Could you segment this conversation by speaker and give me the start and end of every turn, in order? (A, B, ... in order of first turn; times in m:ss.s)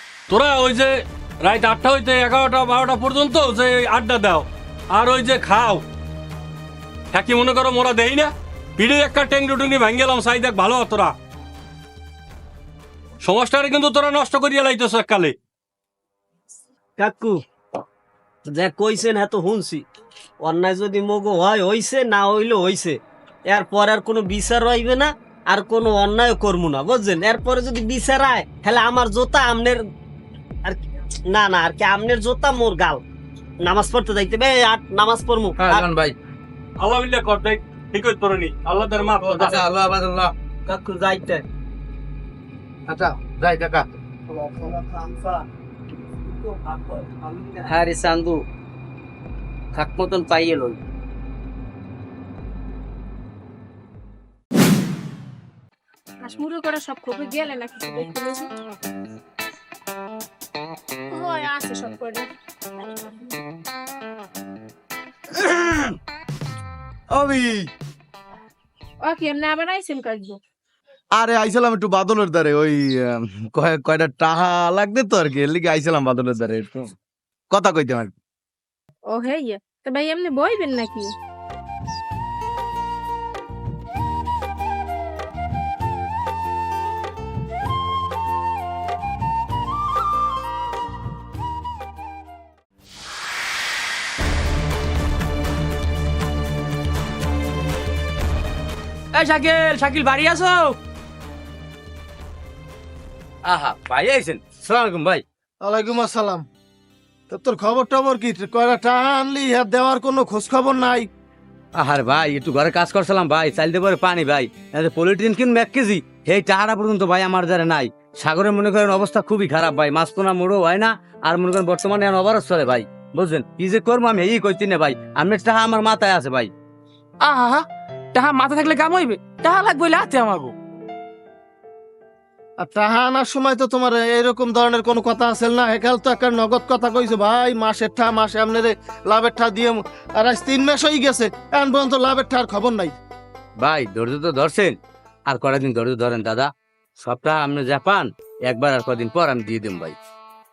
0:00.3-0:05.8 A
0:07.1-0:11.2 A
0:13.2-0:15.4 A
0:17.0-0:17.4 B
0:18.5-0:19.8 B
0:20.4-0:29.8 B
0:30.6-0:33.0 B
0:33.6-0:35.9 B
0:35.7-0:36.1 C
0:36.8-0:39.6 A
0:39.4-0:40.3 C
0:40.7-0:41.4 B
0:44.3-0:45.4 B
0:46.4-0:47.6 B
0:47.6-0:48.4 C
0:49.8-0:50.8 C
0:56.2-0:58.5 D
1:01.1-1:02.3 D
1:05.4-1:05.9 E
1:07.1-1:07.7 E
1:09.0-1:10.4 D
1:11.2-1:16.9 E
1:17.5-1:18.1 E
1:19.1-1:21.1 D
1:39.1-1:40.8 F
1:43.4-1:45.2 C
1:45.6-1:46.5 G
1:47.3-1:51.1 G
1:51.8-2:06.5 C
2:07.2-2:10.5 F
2:12.6-2:23.0 G
2:23.6-2:30.0 C